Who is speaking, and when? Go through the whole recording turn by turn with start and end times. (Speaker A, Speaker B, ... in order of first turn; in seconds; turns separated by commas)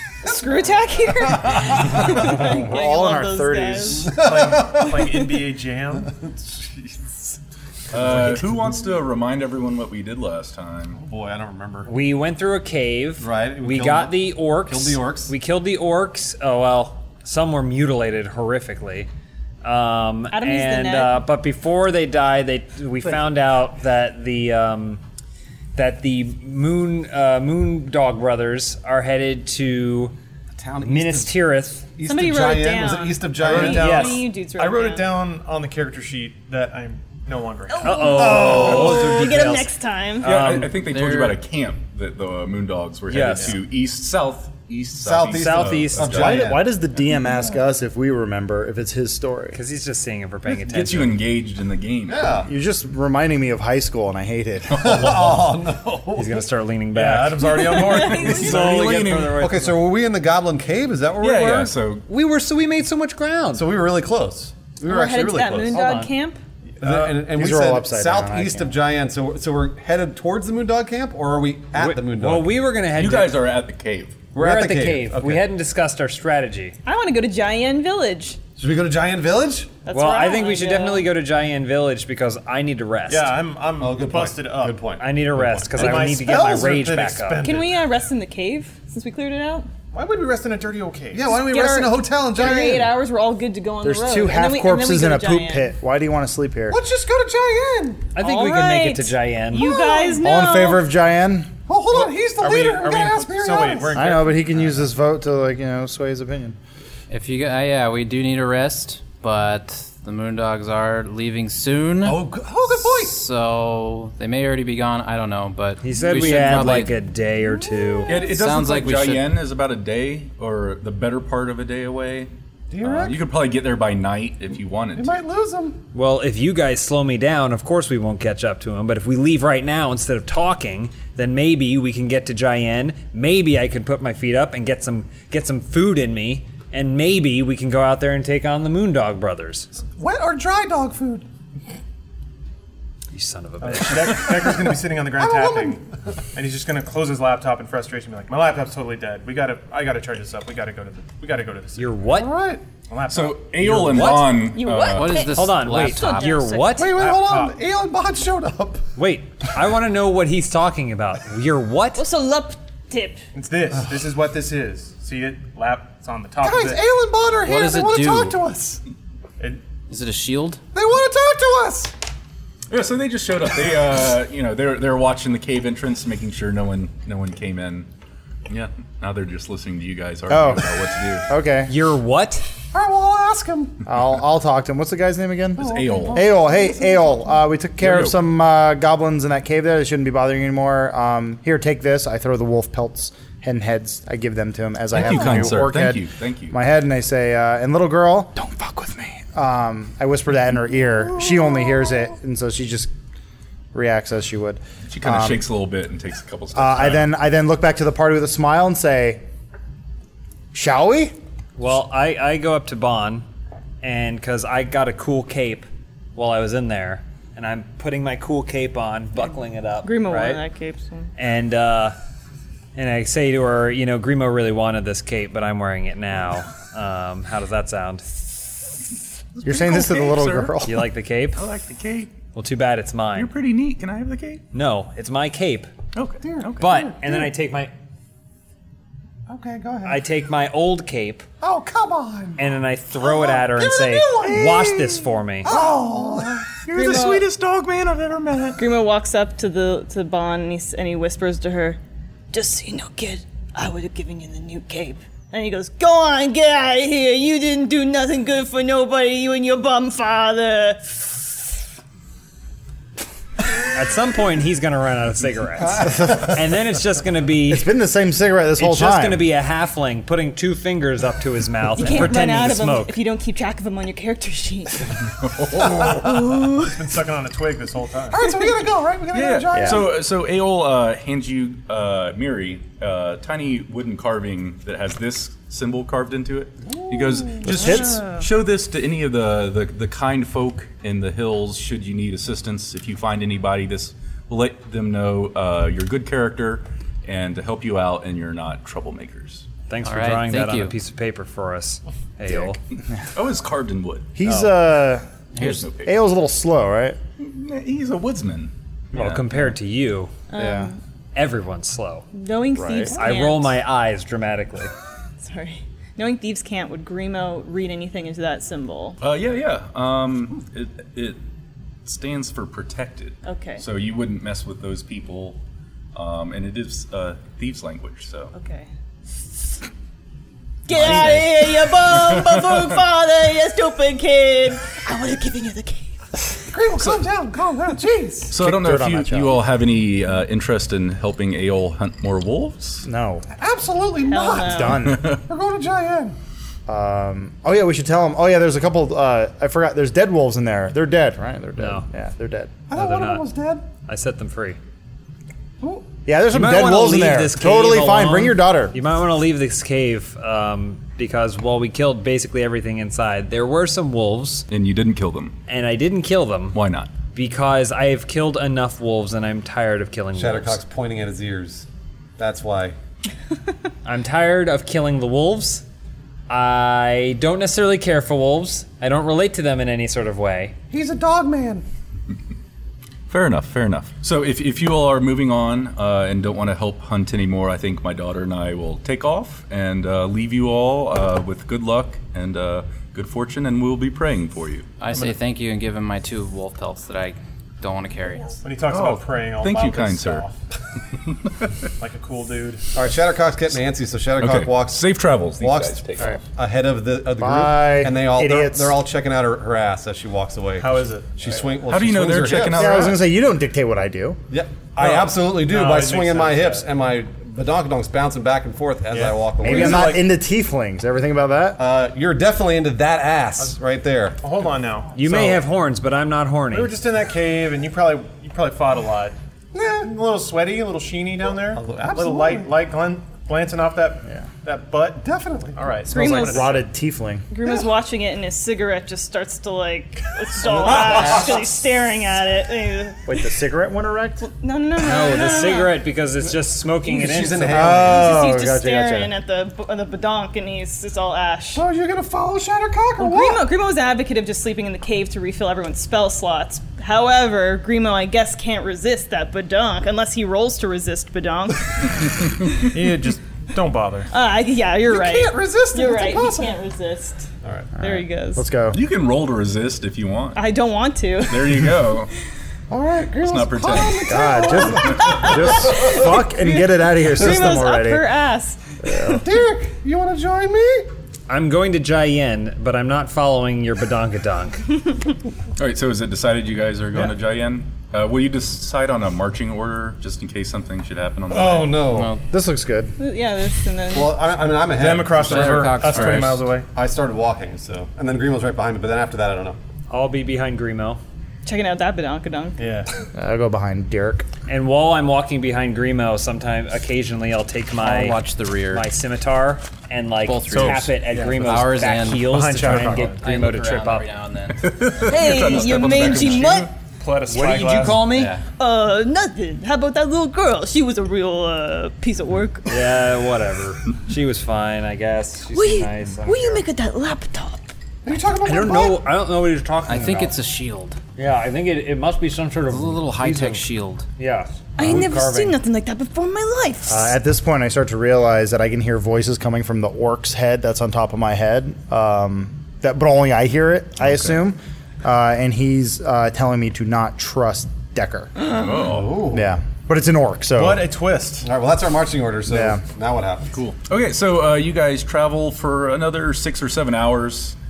Speaker A: 0.2-4.2, Speaker B: 1.3-2.2, Speaker C: 2.0-4.2, Speaker B: 4.0-5.3, Speaker D: 4.2-6.2, Speaker B: 6.0-7.0, Speaker E: 7.9-11.0, Speaker B: 7.9-8.6, Speaker B: 10.9-11.9, Speaker F: 11.9-19.1, Speaker B: 13.2-15.3, Speaker F: 19.6-25.0, Speaker A: 20.3-21.2, Speaker F: 25.8-30.1, Speaker B: 30.6-31.4, Speaker F: 30.8-31.9, Speaker B: 32.0-34.2, Speaker A: 32.0-35.1, Speaker D: 33.3-38.0, Speaker F: 33.5-33.8, Speaker A: 37.7-40.4, Speaker F: 37.8-40.8, Speaker B: 38.0-39.5, Speaker E: 40.2-46.6, Speaker G: 40.8-41.4, Speaker F: 43.1-43.6, Speaker B: 45.0-46.8, Speaker F: 45.3-46.4, Speaker C: 46.2-49.6, Speaker F: 49.5-51.2, Speaker E: 50.5-52.5, Speaker B: 52.1-52.5, Speaker C: 52.5-55.4, Speaker B: 54.7-56.5, Speaker F: 56.1-59.8, Speaker D: 56.9-59.0, Speaker B: 57.4-58.7, Speaker A: 57.8-58.5, Speaker E: 58.2-59.4, Speaker B: 59.4-61.7, Speaker E: 61.2-62.0, Speaker F: 62.1-63.7, Speaker B: 63.5-66.0, Speaker A: 64.8-66.4, Speaker F: 65.7-66.1, Speaker B: 66.8-72.6, Speaker D: 66.8-67.1, Speaker C: 66.9-68.7, Speaker F: 71.7-73.4, Speaker E: 72.9-74.3, Speaker B: 74.3-75.4, Speaker F: 74.3-76.8, Speaker A: 76.8-78.4, Speaker B: 78.6-79.8, Speaker A: 79.8-81.1, Speaker F: 79.9-83.3, Speaker D: 83.1-84.8, Speaker B: 83.8-86.8, Speaker F: 85.0-87.5, Speaker D: 85.7-87.8, Speaker A: 87.4-89.7, Speaker D: 89.9-91.4, Speaker B: 91.1-92.9, Speaker A: 91.4-95.7, Speaker C: 93.8-96.8, Speaker B: 96.7-98.1, Speaker F: 98.2-99.8, Speaker A: 98.2-100.9, Speaker B: 99.5-100.4, Speaker C: 100.2-101.5, Speaker B: 101.7-104.1, Speaker D: 101.9-104.8, Speaker C: 103.9-106.6, Speaker G: 107.1-117.0, Speaker B: 112.0-113.2, Speaker F: 115.8-118.2, Speaker B: 116.0-116.6, Speaker B: 117.4-118.2, Speaker E: 118.1-122.3, Speaker G: 118.2-119.3, Speaker B: 122.7-123.2, Speaker E: 122.8-125.1, Speaker B: 125.0-125.8, Speaker F: 125.9-139.7, Speaker B: 140.0-141.3, Speaker F: 143.1-144.3, Speaker D: 143.6-145.8, Speaker B: 144.6-145.8, Speaker D: 146.3-152.0, Speaker F: 151.8-152.3, Speaker B: 152.1-152.6, Speaker D: 152.9-154.2, Speaker E: 153.1-155.3, Speaker F: 153.6-154.5, Speaker A: 154.5-157.0, Speaker G: 154.8-156.4, Speaker F: 155.3-156.9, Speaker B: 156.7-158.8, Speaker D: 156.9-157.6, Speaker F: 159.0-162.1, Speaker A: 161.9-163.2, Speaker D: 163.3-166.9, Speaker B: 166.4-168.8, Speaker G: 167.4-168.4, Speaker G: 169.9-170.6, Speaker B: 170.7-171.9, Speaker E: 172.7-177.9, Speaker E: 178.5-181.3, Speaker C: 180.3-180.7, Speaker C: 181.3-181.7, Speaker F: 181.7-182.5, Speaker B: 182.7-183.8, Speaker C: 183.9-202.9, Speaker B: 185.6-187.3, Speaker E: 185.6-186.3, Speaker E: 187.8-188.2, Speaker E: 194.9-196.6, Speaker B: 201.2-201.8, Speaker C: 203.7-205.5, Speaker E: 204.9-207.1, Speaker C: 206.6-209.2, Speaker C: 210.5-211.2, Speaker F: 211.6-213.2, Speaker F: 213.8-220.4, Speaker A: 219.8-221.1, Speaker F: 221.2-222.0, Speaker F: 222.8-228.2, Speaker E: 229.3-230.6, Speaker C: 229.4-230.9, Speaker F: 230.7-231.4, Speaker E: 231.3-232.1, Speaker F: 232.3-233.3, Speaker E: 233.2-234.4, Speaker F: 234.5-235.7, Speaker E: 235.9-236.7, Speaker B: 236.2-237.3, Speaker F: 236.6-237.7, Speaker B: 239.3-240.0, Speaker F: 239.8-241.2, Speaker B: 241.4-242.4, Speaker F: 242.4-245.6, Speaker B: 243.0-246.6, Speaker E: 246.5-248.6, Speaker A: 246.8-247.2, Speaker A: 248.6-251.8, Speaker A: 252.3-261.3, Speaker F: 263.7-267.7, Speaker B: 265.8-266.2, Speaker C: 267.5-269.3, Speaker F: 268.6-273.0, Speaker A: 271.8-275.0, Speaker E: 275.2-276.0, Speaker A: 275.7-276.8, Speaker D: 276.7-278.2, Speaker B: 278.1-279.9, Speaker E: 279.1-299.5, Speaker C: 279.5-279.9, Speaker B: 286.7-287.4, Speaker C: 287.4-288.0, Speaker A: 287.4-288.3, Speaker F: 299.7-302.6, Speaker G: 299.8-300.7, Speaker C: 302.3-302.6, Speaker E: 303.1-304.1, Speaker C: 304.1-307.0, Speaker F: 304.3-304.5, Speaker G: 305.4-305.6, Speaker E: 305.4-306.0, Speaker E: 307.2-309.4, Speaker F: 308.9-310.1, Speaker A: 310.3-310.8, Speaker C: 310.4-310.7, Speaker F: 311.1-312.1, Speaker A: 312.1-313.6, Speaker C: 312.6-313.0, Speaker F: 312.9-314.7, Speaker A: 315.2-319.0, Speaker E: 319.0-321.2, Speaker E: 321.9-325.4, Speaker A: 323.3-323.6, Speaker E: 325.9-328.3, Speaker A: 328.3-328.7, Speaker A: 330.7-335.9, Speaker E: 330.7-332.5, Speaker B: 336.5-338.3, Speaker E: 338.3-342.9, Speaker C: 338.3-339.4, Speaker C: 342.8-343.3, Speaker B: 343.4-346.1, Speaker A: 344.0-344.8, Speaker C: 344.3-345.2, Speaker E: 344.9-345.2, Speaker C: 346.7-352.5, Speaker F: 351.6-351.9, Speaker B: 352.7-353.6, Speaker F: 352.7-353.3, Speaker F: 353.9-354.6, Speaker B: 355.6-355.9, Speaker C: 356.1-358.8, Speaker F: 356.3-364.5, Speaker E: 364.5-365.3, Speaker F: 365.5-366.6, Speaker E: 366.5-366.9, Speaker F: 367.1-370.6, Speaker B: 370.1-371.7, Speaker B: 372.2-372.8, Speaker F: 373.9-375.6, Speaker F: 376.3-380.6, Speaker B: 380.7-381.6, Speaker E: 383.1-394.7, Speaker G: 394.8-398.4, Speaker D: 398.4-400.4, Speaker E: 398.7-400.3, Speaker D: 401.8-402.6, Speaker B: 402.7-404.9, Speaker E: 404.2-406.2, Speaker B: 405.4-412.9, Speaker C: 407.2-408.7, Speaker D: 410.6-411.6, Speaker E: 411.7-413.0, Speaker C: 412.3-414.2, Speaker B: 414.3-420.0, Speaker D: 414.8-416.7, Speaker D: 418.9-420.1, Speaker C: 419.4-421.6, Speaker B: 421.6-424.2, Speaker D: 424.2-425.4, Speaker F: 424.9-426.7, Speaker D: 426.5-429.1, Speaker B: 429.5-429.9, Speaker D: 429.8-436.6, Speaker B: 431.5-432.5, Speaker B: 435.0-435.7, Speaker C: 435.9-437.3, Speaker A: 435.9-436.6, Speaker A: 437.3-443.0, Speaker D: 440.4-441.3, Speaker C: 443.1-444.2, Speaker A: 444.3-445.8, Speaker F: 444.8-448.1, Speaker B: 446.8-448.4, Speaker C: 447.5-449.1, Speaker A: 447.8-451.7, Speaker B: 451.6-453.5, Speaker A: 453.0-462.5, Speaker D: 462.7-464.1, Speaker A: 464.1-468.4, Speaker B: 464.9-466.6, Speaker B: 467.4-467.7, Speaker C: 467.8-468.8, Speaker E: 468.7-470.4, Speaker A: 470.4-471.8, Speaker E: 471.2-472.1, Speaker B: 472.7-476.0, Speaker E: 473.2-474.7, Speaker C: 474.1-478.1, Speaker A: 474.8-479.2, Speaker B: 477.2-477.5, Speaker C: 478.8-479.2, Speaker B: 479.2-480.9, Speaker F: 481.3-484.6, Speaker E: 485.6-492.0, Speaker B: 491.3-492.1, Speaker G: 491.9-492.2, Speaker C: 492.1-492.9, Speaker A: 493.0-494.3, Speaker B: 493.9-499.6, Speaker D: 494.7-496.7, Speaker G: 495.1-496.5, Speaker F: 499.9-501.0, Speaker A: 501.4-502.7, Speaker D: 502.6-502.9, Speaker C: 503.1-504.3, Speaker F: 504.5-514.1, Speaker G: 507.8-508.9, Speaker G: 510.2-515.1, Speaker D: 510.5-513.2, Speaker E: 514.6-516.7, Speaker A: 515.0-516.7, Speaker D: 517.0-518.2, Speaker F: 517.3-518.4, Speaker G: 518.0-518.4, Speaker A: 518.6-522.8, Speaker F: 522.7-526.6, Speaker A: 525.5-527.7, Speaker B: 528.0-529.0, Speaker F: 528.4-530.4, Speaker G: 529.9-531.0, Speaker F: 531.2-533.7, Speaker G: 532.7-534.0, Speaker F: 534.2-535.6, Speaker A: 534.8-537.1, Speaker C: 536.9-548.3, Speaker E: 548.5-549.3, Speaker B: 548.8-549.5, Speaker C: 549.3-550.9, Speaker D: 550.5-551.5, Speaker B: 551.4-553.5, Speaker C: 552.5-552.8, Speaker E: 553.5-557.6